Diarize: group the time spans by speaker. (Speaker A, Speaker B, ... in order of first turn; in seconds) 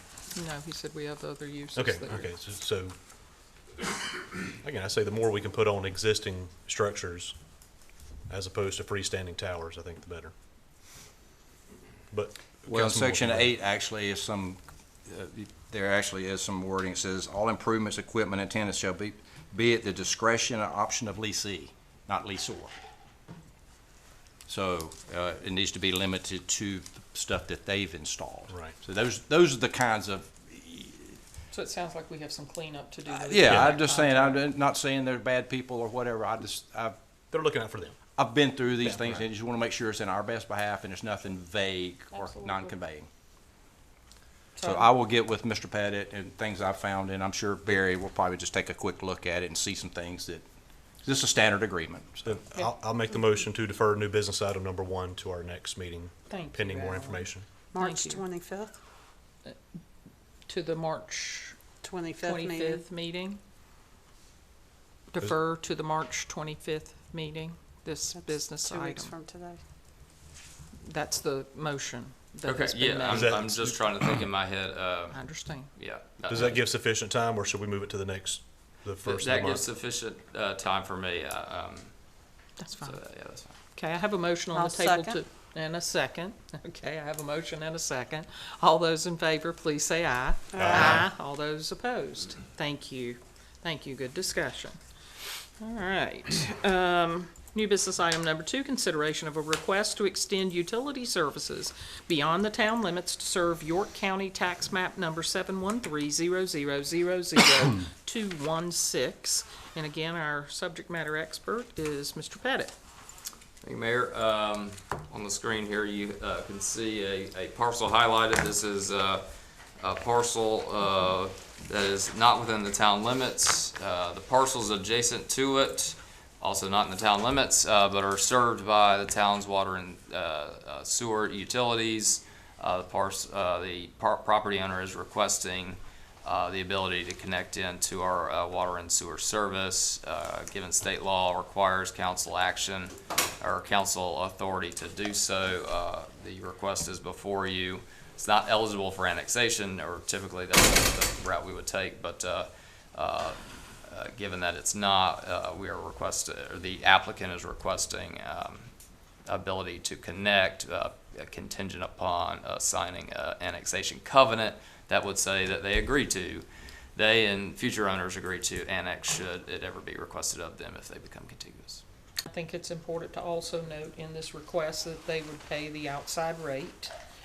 Speaker A: 0.3-2.3, 31.5-34.4, 42.1-42.8, 44.6-44.9, 56.3-58.2, 60.5-61.6, 62.2-63.4, 65.1-69.1, 70.8-73.3, 75.1-75.7, 82.6-83.0, 83.7-94.8, 95.6-112.8, 172.3-176.9
Speaker B: 1.8-3.0, 4.6-7.4, 8.3-10.3, 12.1-13.5, 37.3-38.0, 38.8-39.2, 52.2-57.6, 73.1-74.0, 76.3-79.7
Speaker C: 12.7-22.7, 24.5-31.2, 33.1-37.0, 38.2-43.1, 44.6-50.4, 51.0-52.3
Speaker D: 57.7-58.8, 61.8-62.9, 68.1-69.6, 84.5-85.2, 90.5-91.1
Speaker E: 72.5-76.6, 79.0-82.2, 82.8-83.5, 113.6-119.3, 119.8-158.7, 159.3-171.8